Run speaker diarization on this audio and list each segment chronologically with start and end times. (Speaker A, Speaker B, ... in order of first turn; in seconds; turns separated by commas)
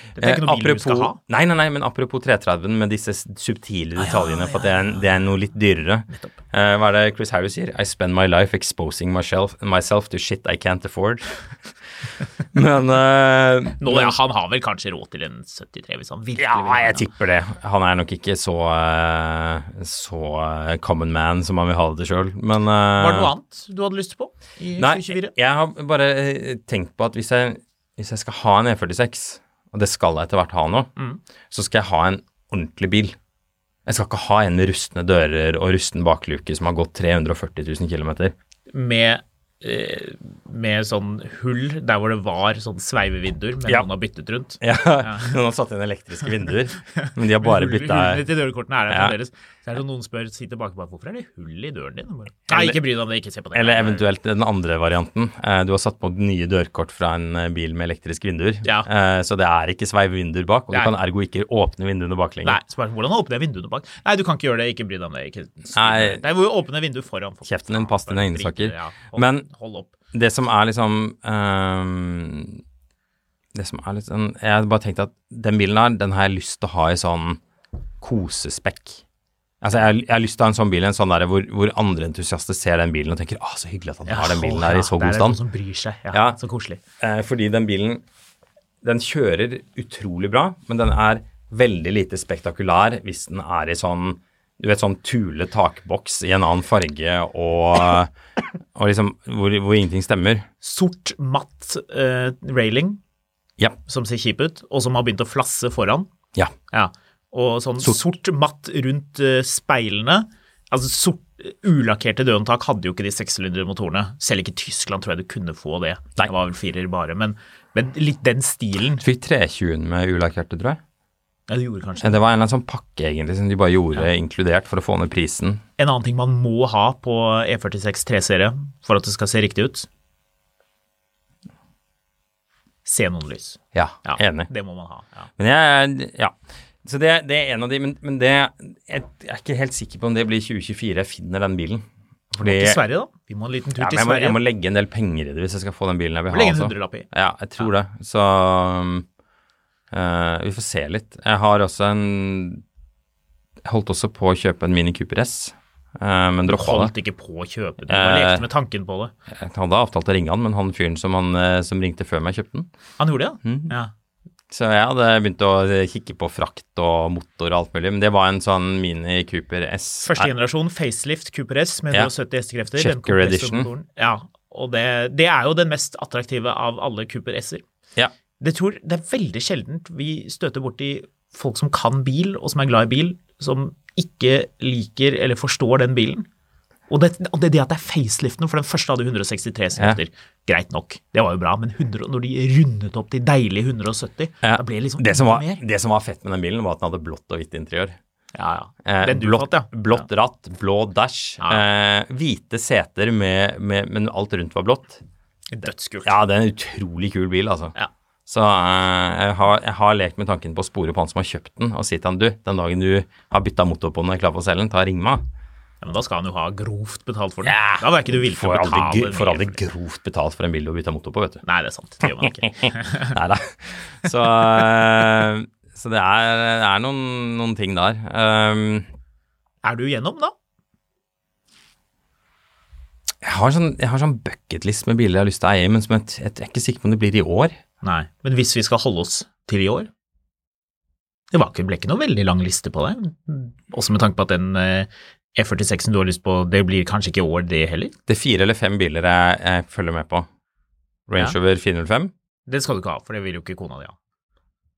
Speaker A: 0.2-1.2, Speaker B: 0.2-11.4, Speaker A: 4.0-5.0, Speaker B: 12.5-14.2, Speaker A: 13.8-17.1, Speaker B: 16.4-23.3, Speaker A: 23.0-25.3, Speaker B: 24.8-30.9, Speaker B: 31.5-33.2, Speaker B: 33.9-38.3, Speaker A: 38.7-45.4, Speaker B: 44.6-48.3, Speaker A: 47.4-54.0, Speaker B: 48.9-49.1, Speaker B: 52.5-52.8, Speaker B: 53.5-62.6, Speaker A: 62.4-69.9, Speaker B: 65.7-66.2, Speaker B: 67.5-69.5, Speaker B: 70.1-72.6, Speaker B: 73.5-77.4, Speaker B: 78.0-79.0, Speaker B: 79.6-85.4, Speaker A: 84.1-86.8, Speaker B: 86.1-86.4, Speaker B: 87.0-88.0, Speaker B: 88.8-98.1, Speaker B: 98.8-100.5, Speaker A: 100.6-103.0, Speaker A: 103.9-106.1, Speaker A: 106.7-119.0, Speaker B: 119.0-120.8, Speaker A: 121.5-122.2, Speaker B: 122.0-125.6, Speaker A: 125.8-129.9, Speaker A: 132.8-135.3, Speaker B: 133.7-134.5, Speaker B: 135.4-136.3, Speaker B: 136.8-142.8, Speaker A: 142.4-144.4, Speaker B: 143.8-149.1, Speaker A: 146.3-147.1, Speaker B: 149.9-152.6, Speaker B: 153.7-156.9, Speaker A: 156.5-159.1, Speaker B: 157.9-158.4, Speaker B: 159.3-162.7, Speaker A: 163.0-163.9, Speaker B: 163.4-163.7, Speaker B: 164.5-170.3, Speaker A: 170.0-177.6, Speaker B: 172.8-173.7, Speaker A: 178.4-186.3, Speaker A: 186.9-195.6, Speaker B: 194.4-198.0, Speaker A: 198.3-200.1, Speaker B: 198.9-205.0, Speaker A: 205.5-206.1, Speaker B: 206.0-207.8, Speaker B: 208.3-215.2, Speaker A: 215.8-219.6, Speaker B: 217.4-221.4, Speaker A: 221.4-223.1, Speaker B: 223.1-228.9, Speaker A: 229.6-230.3, Speaker B: 233.2-237.6, Speaker A: 237.8-239.9, Speaker A: 241.3-247.9, Speaker B: 248.1-250.3, Speaker B: 251.1-252.1, Speaker A: 252.5-253.9